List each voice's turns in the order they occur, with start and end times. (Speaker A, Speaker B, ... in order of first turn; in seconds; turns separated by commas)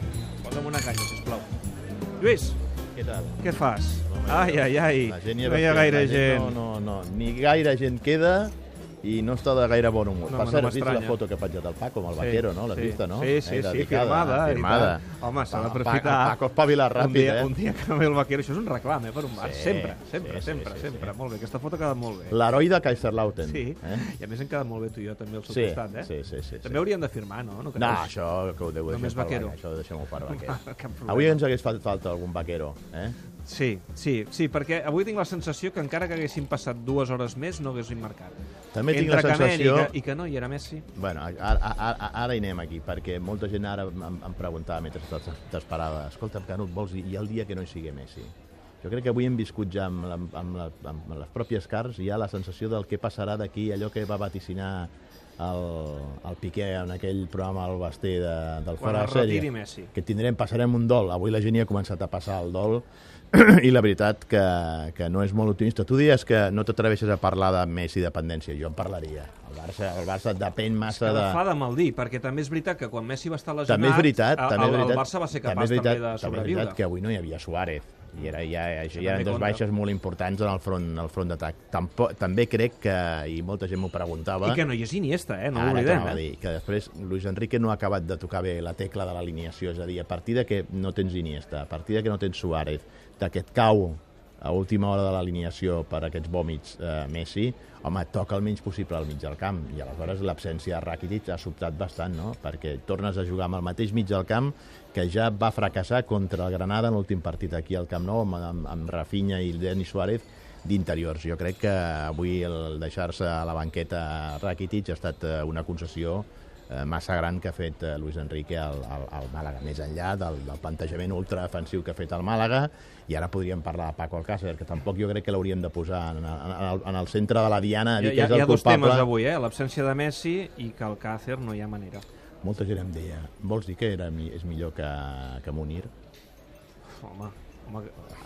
Speaker A: 0.4-1.5, Speaker A: 2.2-2.6, Speaker B: 2.9-3.4, Speaker A: 3.4-6.6, Speaker B: 4.0-17.5, Speaker A: 10.3-11.2, Speaker A: 12.1-16.4, Speaker A: 16.9-22.4, Speaker B: 19.4-21.1, Speaker B: 22.3-24.0, Speaker A: 23.4-26.1, Speaker B: 25.5-26.8, Speaker A: 26.6-28.1, Speaker B: 27.8-33.2, Speaker A: 28.9-29.6, Speaker A: 30.3-31.4, Speaker A: 33.4-38.4, Speaker B: 38.7-39.9, Speaker A: 38.9-40.9, Speaker B: 40.9-71.4, Speaker A: 58.8-59.9, Speaker A: 70.9-76.8, Speaker B: 73.7-84.6, Speaker A: 78.9-79.6, Speaker A: 84.4-86.2, Speaker B: 85.5-129.1, Speaker A: 128.0-132.0, Speaker B: 132.4-135.9, Speaker A: 137.0-138.0